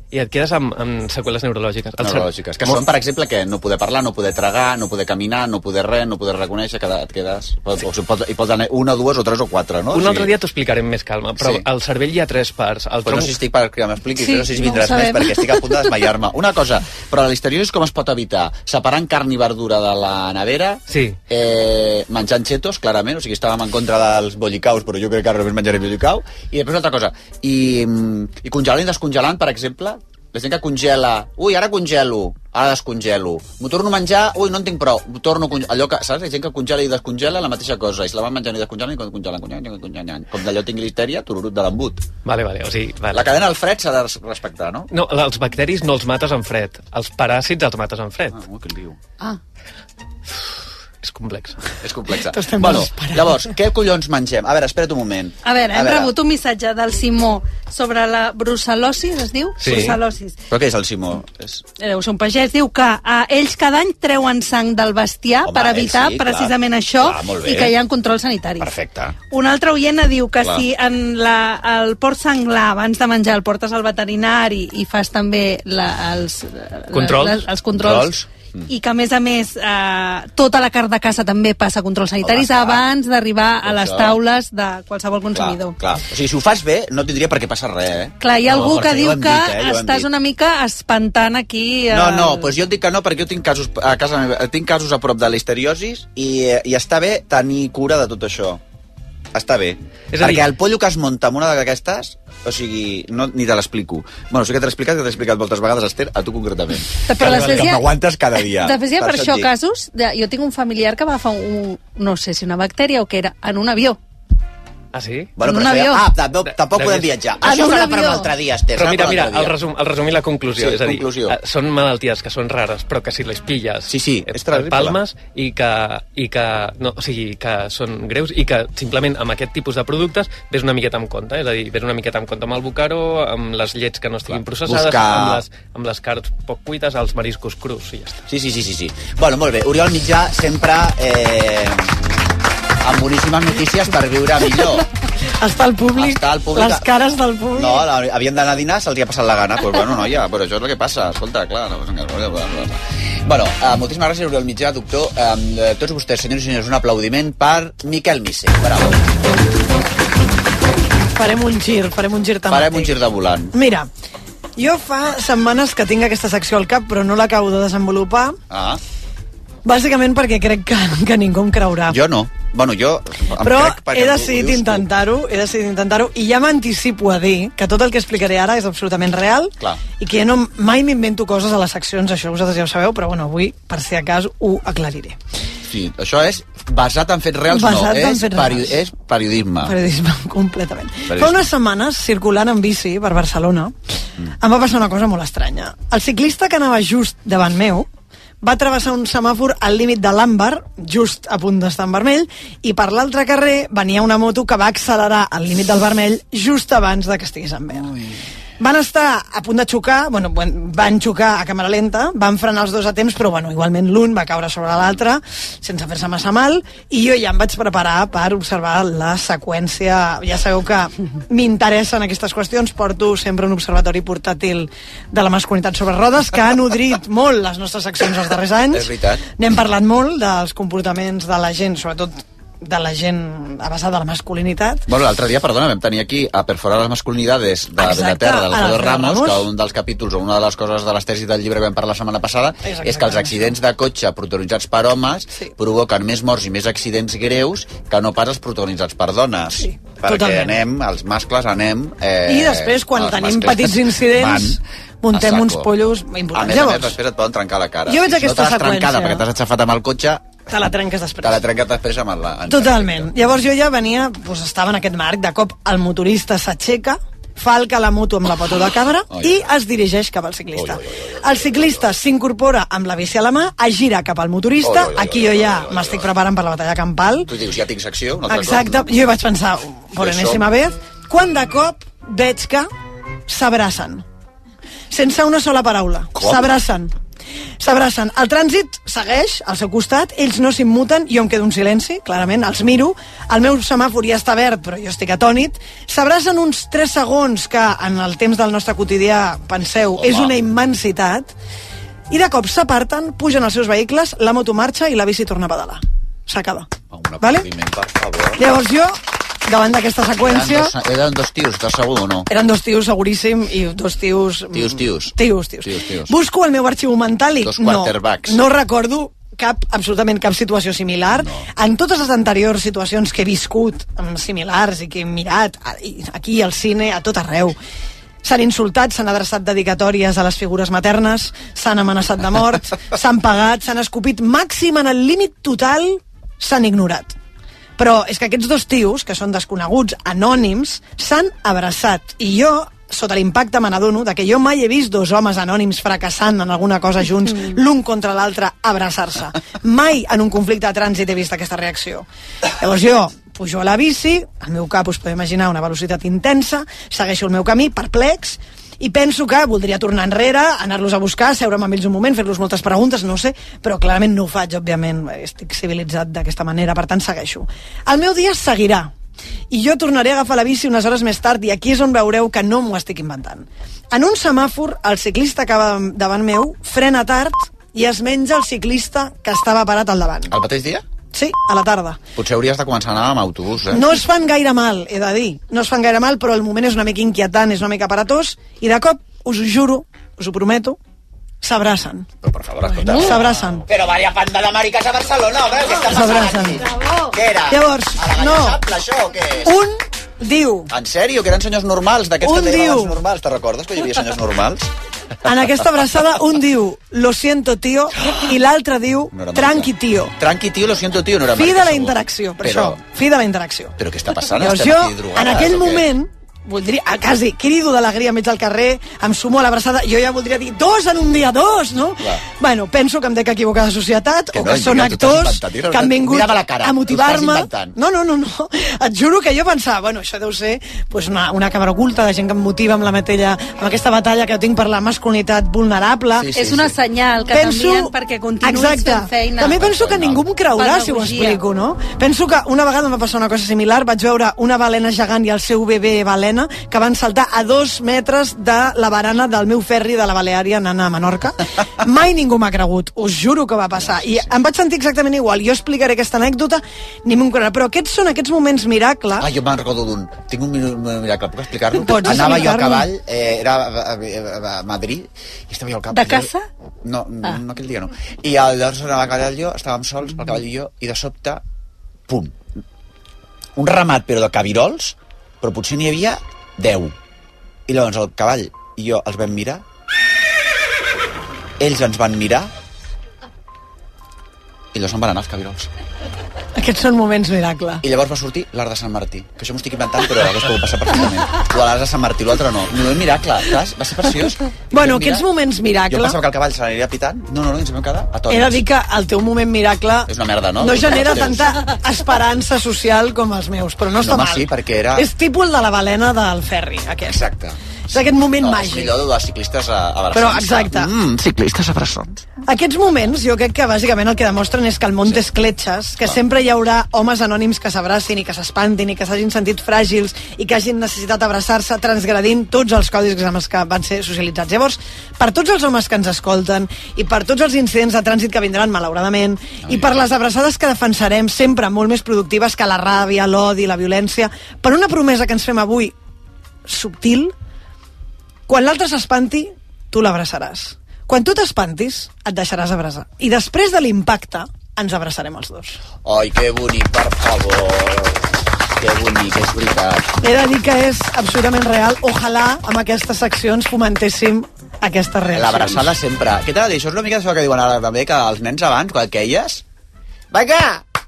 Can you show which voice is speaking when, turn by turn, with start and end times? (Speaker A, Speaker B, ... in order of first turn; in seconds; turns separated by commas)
Speaker A: 0.1-2.8, Speaker B: 2.0-10.3, Speaker A: 9.9-13.4, Speaker B: 11.4-11.7, Speaker B: 13.1-42.0, Speaker C: 14.2-15.9, Speaker A: 20.9-21.2, Speaker A: 42.2-43.3, Speaker B: 43.1-44.9, Speaker A: 44.9-48.4, Speaker B: 48.3-49.0, Speaker A: 51.0-51.7, Speaker B: 51.8-56.1, Speaker D: 52.2-53.4, Speaker C: 55.4-60.4, Speaker A: 59.6-60.0, Speaker B: 59.6-60.0, Speaker B: 60.5-61.6, Speaker C: 61.8-68.7, Speaker B: 65.5-67.8, Speaker B: 68.6-69.2, Speaker C: 69.3-78.2, Speaker B: 70.4-70.7, Speaker A: 76.9-77.5, Speaker B: 77.7-78.7, Speaker C: 78.7-85.8, Speaker B: 82.2-82.8, Speaker B: 83.6-84.2, Speaker B: 85.3-90.1, Speaker C: 88.2-92.5, Speaker B: 91.9-98.6, Speaker B: 99.3-109.5, Speaker A: 100.1-100.5, Speaker C: 107.1-107.9, Speaker A: 107.2-107.7, Speaker C: 108.4-114.0, Speaker A: 114.9-115.3, Speaker B: 115.4-119.6, Speaker C: 115.4-116.1, Speaker A: 116.7-117.1, Speaker C: 117.4-118.3, Speaker A: 118.8-138.2, Speaker B: 120.6-121.4, Speaker B: 123.9-125.0, Speaker B: 134.3-135.4, Speaker B: 138.3-142.0, Speaker B: 142.8-144.9, Speaker D: 145.4-147.9, Speaker B: 145.9-146.9, Speaker B: 147.5-159.0, Speaker D: 161.2-162.9, Speaker B: 162.5-163.5, Speaker D: 163.5-163.9, Speaker D: 164.6-168.4, Speaker B: 168.5-168.8, Speaker D: 169.7-172.0, Speaker B: 171.9-174.9, Speaker D: 173.4-185.2, Speaker B: 179.6-179.8, Speaker B: 185.7-189.8, Speaker D: 187.5-188.7, Speaker D: 189.7-193.8, Speaker B: 191.1-191.5, Speaker D: 194.4-197.9, Speaker D: 198.4-207.9, Speaker D: 208.6-234.9, Speaker B: 228.7-229.3, Speaker B: 234.9-254.6, Speaker D: 237.8-239.5, Speaker D: 242.6-243.6, Speaker D: 249.6-250.6, Speaker D: 252.3-257.0, Speaker B: 255.1-255.7, Speaker B: 256.3-260.4, Speaker D: 257.9-259.2, Speaker D: 260.5-261.4, Speaker B: 261.2-263.2, Speaker D: 262.5-277.3, Speaker B: 269.1-269.5, Speaker B: 270.6-271.9, Speaker B: 274.6-276.1, Speaker B: 277.3-279.0, Speaker D: 278.3-282.7, Speaker B: 280.0-280.4, Speaker D: 283.3-284.0, Speaker D: 284.9-286.9, Speaker B: 286.2-286.6, Speaker D: 287.6-301.3, Speaker B: 300.0-300.4, Speaker D: 302.1-306.7, Speaker B: 306.9-308.4, Speaker D: 307.2-307.5, Speaker D: 308.4-310.7, Speaker B: 310.2-312.3, Speaker D: 312.3-327.6, Speaker B: 314.5-316.1, Speaker B: 317.4-318.4, Speaker B: 321.1-321.5, Speaker D: 328.2-337.1, Speaker D: 337.8-352.1, Speaker D: 352.6-368.9, Speaker D: 369.5-380.3, Speaker B: 380.3-380.8, Speaker D: 381.1-382.0, Speaker B: 382.2-383.9, Speaker D: 383.7-390.8, Speaker D: 391.4-392.1, Speaker B: 392.2-399.6, Speaker D: 392.9-393.7, Speaker D: 395.9-396.7, Speaker D: 397.5-398.6, Speaker D: 399.4-400.7, Speaker B: 400.7-404.7, Speaker D: 402.2-403.0, Speaker D: 405.2-410.1, Speaker B: 409.1-412.8, Speaker D: 411.4-413.8, Speaker B: 413.8-415.9, Speaker D: 414.3-436.3, Speaker B: 424.3-427.8, Speaker B: 436.2-436.8, Speaker C: 436.3-439.6, Speaker D: 437.3-459.3, Speaker B: 439.5-440.2, Speaker C: 440.6-441.4, Speaker B: 453.8-454.3, Speaker B: 459.2-466.3, Speaker D: 461.7-462.9, Speaker C: 465.9-466.5, Speaker B: 466.8-471.4, Speaker B: 472.1-472.4, Speaker B: 473.6-476.9, Speaker B: 477.7-479.6, Speaker B: 481.6-482.5, Speaker B: 484.7-485.7, Speaker D: 486.6-487.8, Speaker B: 487.8-495.3, Speaker D: 494.7-496.2, Speaker B: 495.9-498.6, Speaker D: 498.3-507.2, Speaker B: 500.1-501.8, Speaker B: 504.0-505.1, Speaker B: 507.1-512.2, Speaker D: 507.9-509.0, Speaker D: 510.1-510.9, Speaker D: 512.5-536.0, Speaker B: 529.6-530.0, Speaker D: 536.7-537.3, Speaker D: 538.5-545.8, Speaker B: 546.0-550.1, Speaker D: 550.2-555.9, Speaker B: 555.3-559.6, Speaker B: 560.3-560.8